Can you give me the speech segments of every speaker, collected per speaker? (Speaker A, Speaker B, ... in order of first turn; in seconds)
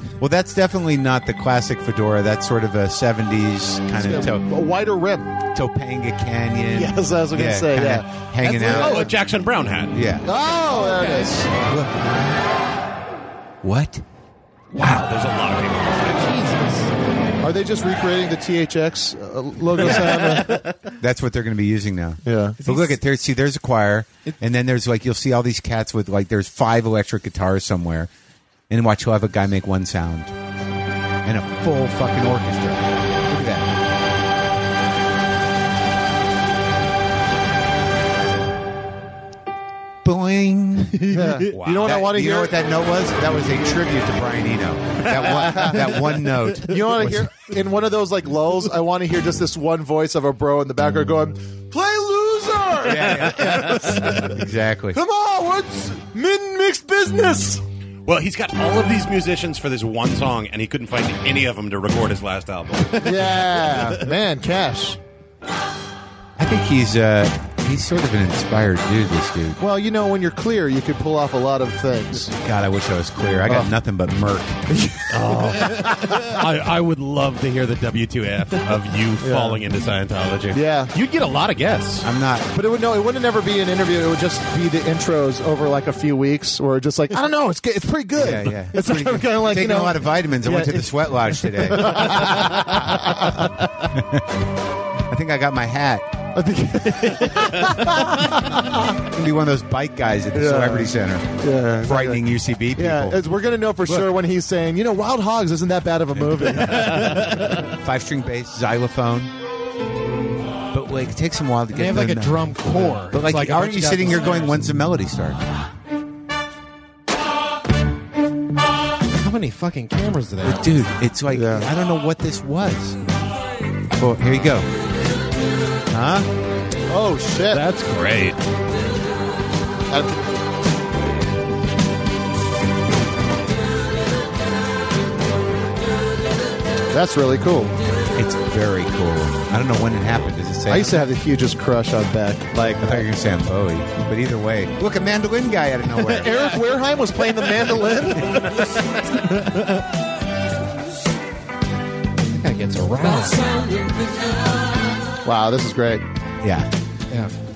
Speaker A: 0.2-4.5, 5.5-9.1, 9.9-10.3, 11.6-12.1, 13.6-14.0, 19.8-28.1, 28.7-30.3, 31.2-33.7, 40.0-41.2, 41.8-47.3, 52.8-55.0, 66.4-69.6, 72.3-74.6, 82.0-82.5, 88.2-93.2, 93.9-94.2, 95.1-96.1, 98.9-103.2, 103.8-104.1, 107.6-109.3, 110.7-115.4, 120.4-123.0, 124.0-124.7, 125.9-126.3, 138.1-141.1, 142.5-146.4, 156.4-156.7
Speaker B: 4.0-5.3, 6.7-9.1, 10.2-11.5, 17.4-20.6, 22.2-22.6, 41.1-42.6, 45.1-45.9, 46.6-54.4, 54.9-57.6, 63.0-65.0, 69.6-72.3, 73.5-73.7, 74.7-75.8, 79.2-79.6, 80.5-80.9, 82.5-93.6, 96.3-98.8, 100.3-102.2, 102.8-107.4, 121.3-121.7, 126.9-127.6, 129.9-130.2, 136.9-137.7, 140.7-143.0, 146.2-148.5, 155.2-156.0
Speaker C: 8.4-10.1, 14.7-16.2, 41.5-42.0, 58.1-63.2, 75.1-82.1, 127.5-128.4
Speaker D: 10.7-11.4, 16.1-16.9, 19.9-20.7, 41.0-41.5, 111.7-114.6, 119.1-120.8, 152.3-153.8